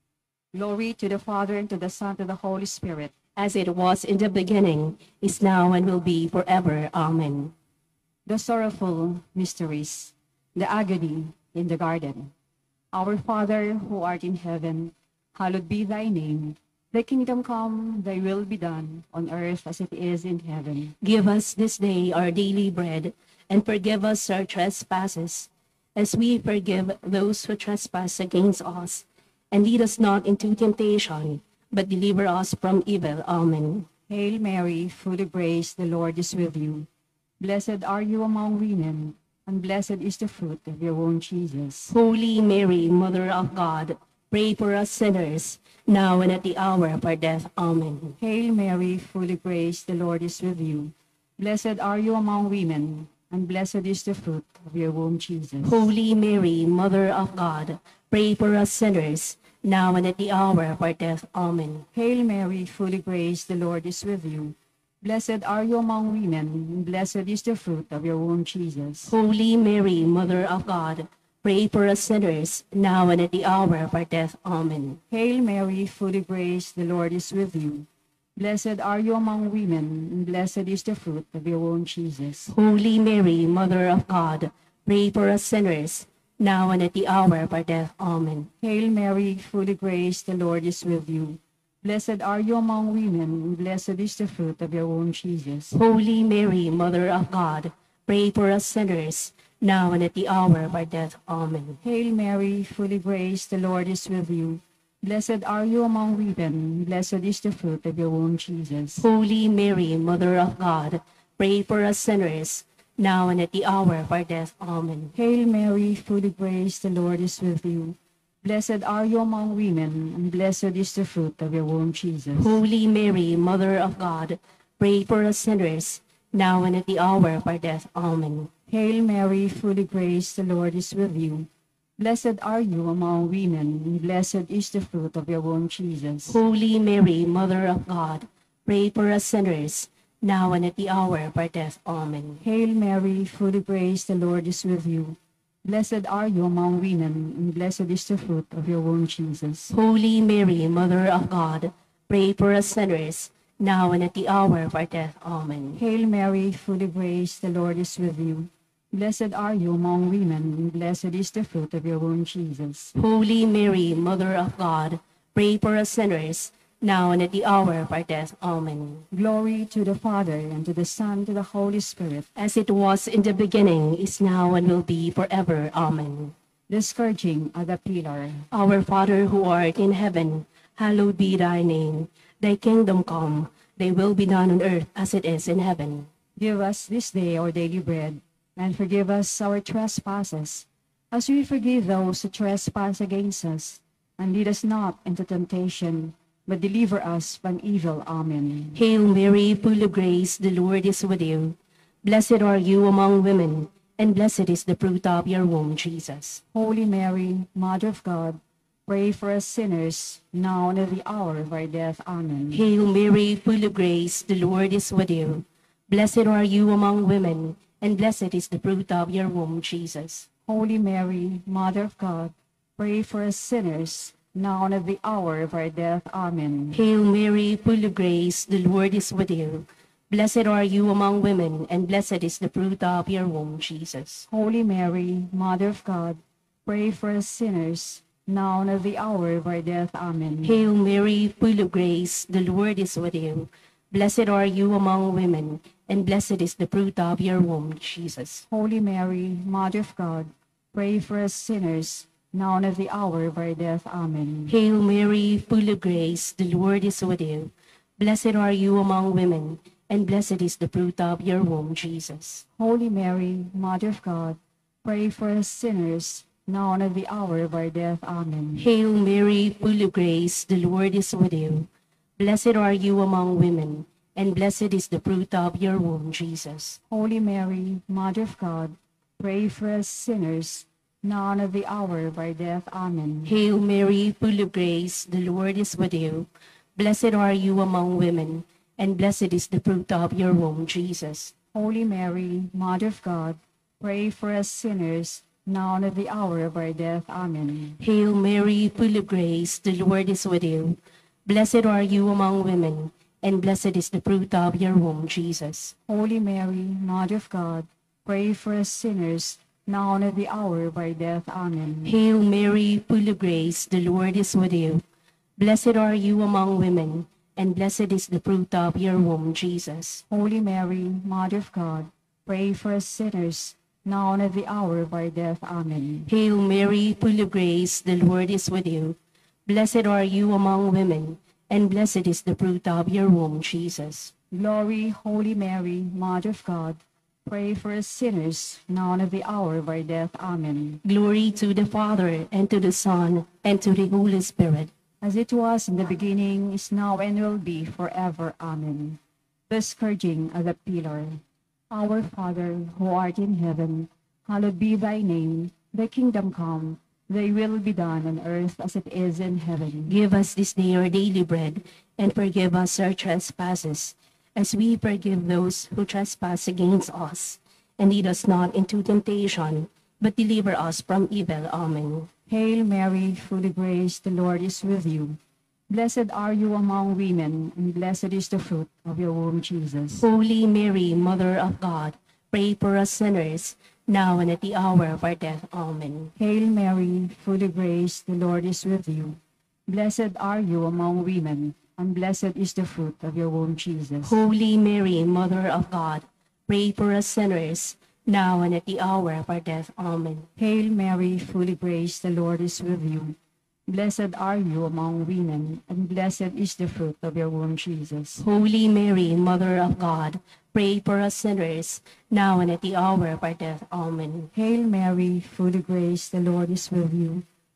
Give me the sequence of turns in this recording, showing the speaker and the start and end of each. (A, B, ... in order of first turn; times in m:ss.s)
0:00.5-0:03.1 A
0:03.4-0:07.5 B
0:08.2-0:12.3 A
0:12.9-0:20.9 A
0:21.0-0:33.9 B
0:34.1-0:36.9 A
0:37.4-0:41.9 A
0:41.9-0:48.2 B
0:48.2-0:55.9 A
0:55.6-1:01.8 B
1:01.9-1:09.1 A
1:09.1-1:15.0 B
1:15.1-1:22.5 A
1:22.5-1:28.5 B
1:28.6-1:35.8 A
1:35.7-1:41.8 B
1:41.8-1:49.1 A
1:49.0-1:55.1 B
1:55.1-2:02.6 A
2:02.4-2:08.5 B
2:08.7-2:16.4 A
2:16.3-2:22.4 B
2:22.4-2:29.7 A
2:29.7-2:35.8 B
2:35.7-2:42.9 A
2:42.9-2:49.0 B
2:49.1-2:52.3 A
2:52.3-2:56.3 B
2:56.7-2:58.4 A
2:58.5-3:06.1 B
3:06.4-3:18.8 A
3:18.7-3:26.4 B
3:26.5-3:32.6 A
3:32.5-3:40.3 B
3:40.5-3:46.8 A
3:46.7-3:54.3 B
3:54.3-4:00.6 A
4:00.4-4:08.4 B
4:08.5-4:14.6 A
4:14.5-4:22.4 B
4:22.6-4:28.7 A
4:28.6-4:36.8 B
4:36.9-4:43.4 A
4:43.2-4:51.3 B
4:51.5-4:57.8 A
4:57.8-5:05.7 B
5:05.9-5:12.0 A
5:11.8-5:14.8 B
5:15.4-5:20.0 B
5:20.1-5:26.1 A
5:26.1-5:34.1 B
5:34.3-5:40.8 A
5:40.8-5:44.7 B
5:45.0-6:00.0 A
5:59.9-6:12.1 B
6:12.3-6:20.1 A
6:20.0-6:26.1 B
6:26.2-6:34.2 A
6:34.0-6:40.3 B
6:40.4-6:48.2 A
6:48.2-6:54.3 B
6:54.3-6:57.2 A